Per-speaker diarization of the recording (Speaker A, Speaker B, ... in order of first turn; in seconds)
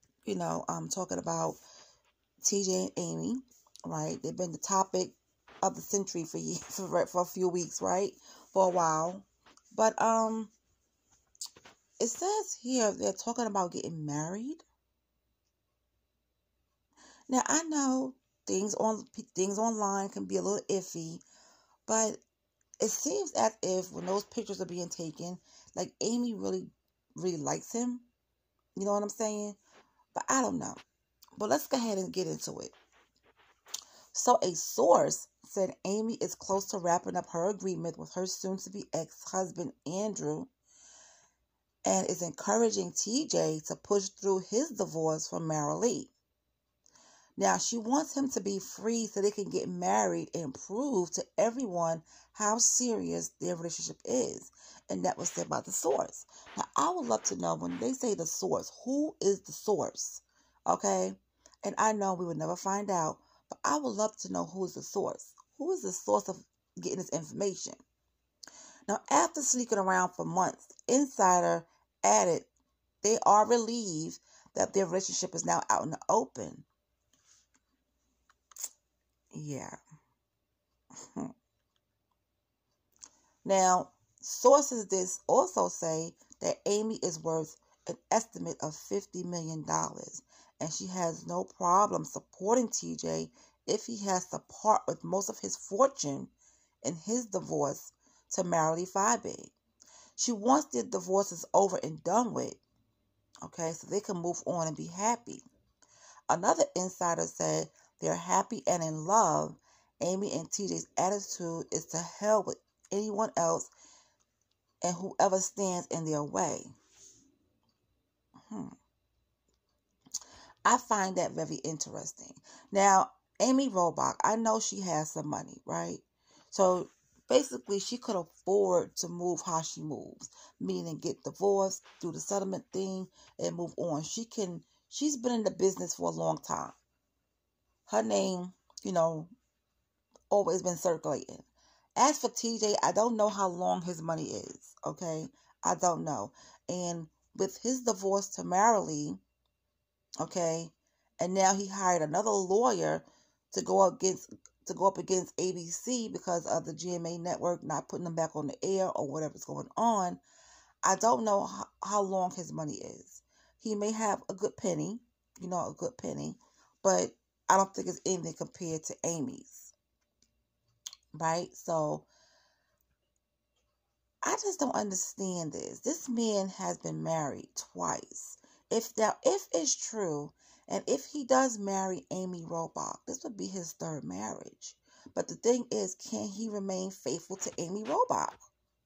Speaker A: 0.2-1.6, 2.4-10.5, 12.0-14.6, 17.3-21.2, 21.9-22.2, 22.8-28.1, 28.8-29.6, 30.1-30.8, 31.4-32.7, 34.1-40.5, 41.8-46.1, 47.4-67.8, 68.9-72.5, 73.0-76.7, 79.3-79.8, 81.0-81.3, 83.4-99.5, 100.2-102.6, 103.4-105.4, 106.3-113.7, 114.8-116.7, 118.5-118.8, 120.7-136.8, 137.9-139.3, 140.3-149.2, 150.2-160.2, 160.8-169.7, 171.1-172.1, 174.2-188.4